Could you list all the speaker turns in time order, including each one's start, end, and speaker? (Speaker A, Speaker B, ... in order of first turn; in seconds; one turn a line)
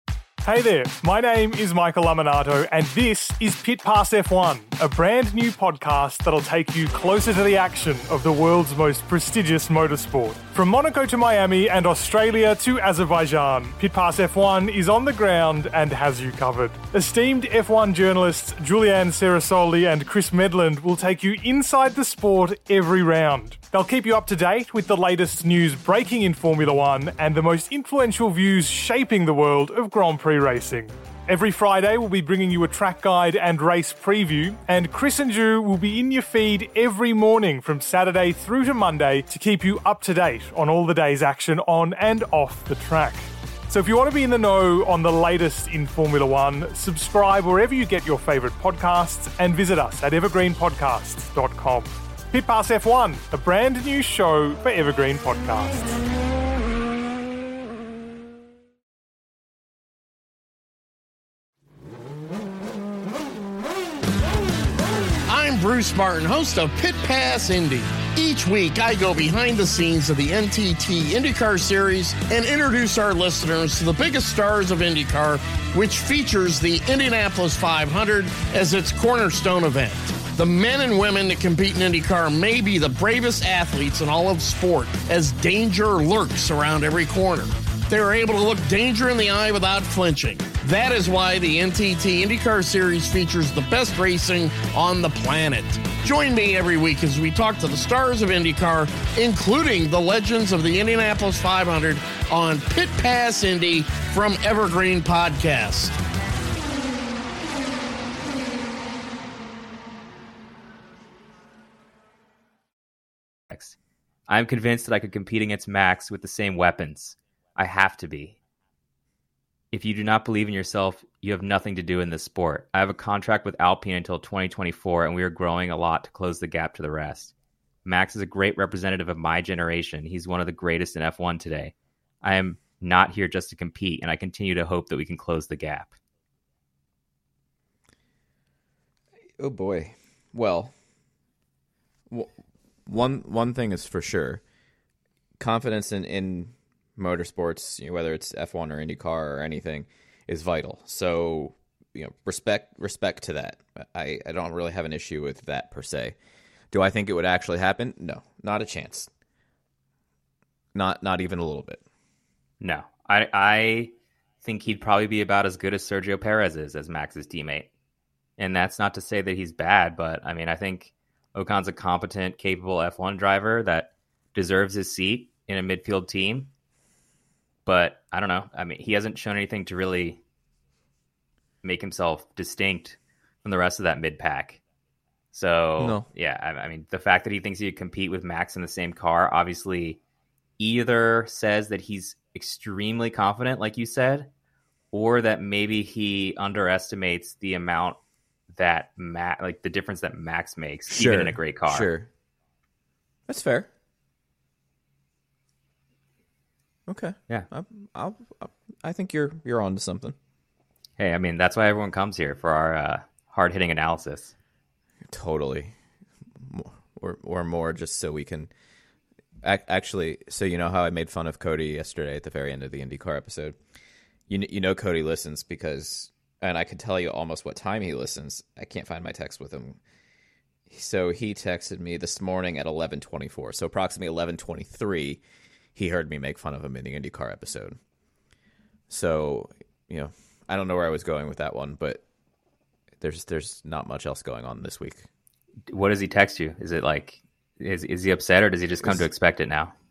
Speaker A: 0.4-55.9
Speaker B: 65.3-106.0
Speaker C: 113.5-113.8
Speaker C: 114.3-118.4
Speaker C: 119.7-127.3
Speaker C: 127.8-135.9
Speaker D: 139.4-140.7
Speaker D: 142.8-144.4
Speaker D: 145.4-156.2
Speaker D: 156.7-159.1
Speaker D: 160.7-161.8
Speaker C: 162.6-167.7
Speaker C: 168.4-176.5
Speaker C: 177.7-180.2
Speaker C: 181.6-184.6
Speaker C: 185.3-190.0
Speaker D: 185.8-186.1
Speaker C: 190.6-194.3
Speaker C: 194.9-198.0
Speaker C: 198.5-201.9
Speaker D: 200.9-202.1
Speaker D: 203.3-203.7
Speaker D: 206.9-210.2
Speaker C: 211.0-214.3
Speaker D: 215.1-215.7
Speaker D: 216.4-218.5
Speaker D: 219.4-223.6
Speaker D: 224.3-229.8
Speaker D: 230.7-235.2
Speaker D: 235.7-237.8
Speaker D: 238.9-242.0
Speaker D: 243.0-245.1
Speaker C: 245.7-249.7